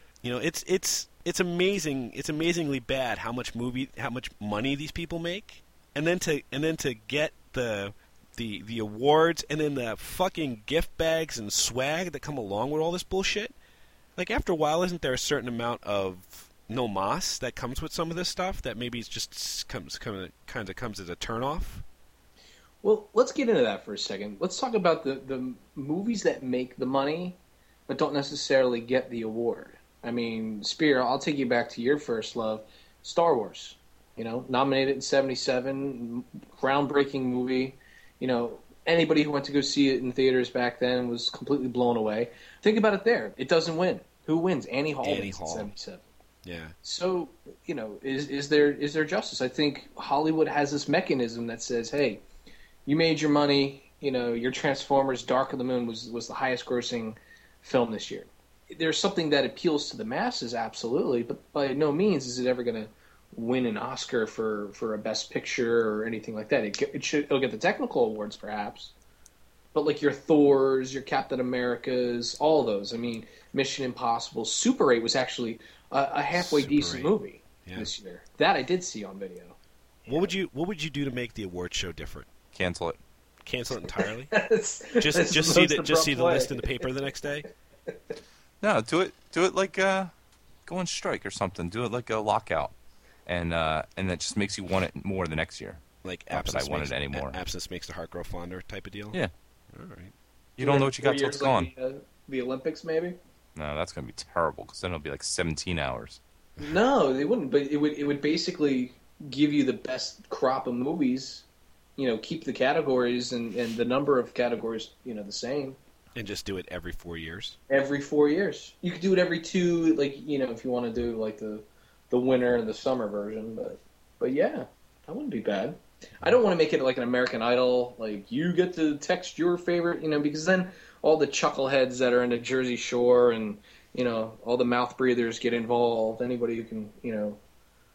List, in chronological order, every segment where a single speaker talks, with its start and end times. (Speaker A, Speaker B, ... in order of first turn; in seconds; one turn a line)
Speaker A: 0.2-13.6
Speaker A: 14.2-21.8
Speaker B: 22.8-46.0
Speaker A: 45.0-45.7
Speaker A: 46.4-46.8
Speaker B: 46.8-52.2
Speaker B: 52.9-68.9
Speaker B: 69.7-80.3
Speaker A: 76.3-77.1
Speaker A: 77.6-77.9
Speaker A: 80.1-82.3
Speaker C: 82.5-83.0
Speaker A: 83.5-84.4
Speaker B: 84.3-86.8
Speaker A: 85.0-87.5
Speaker C: 88.6-90.1
Speaker C: 90.7-92.8
Speaker C: 93.3-97.4
Speaker A: 96.0-99.2
Speaker A: 99.7-100.1
Speaker C: 100.6-101.7
Speaker B: 100.6-103.2
Speaker C: 103.6-106.2
Speaker B: 106.6-111.5
Speaker B: 112.0-115.8
Speaker A: 116.2-117.6
Speaker B: 117.7-137.4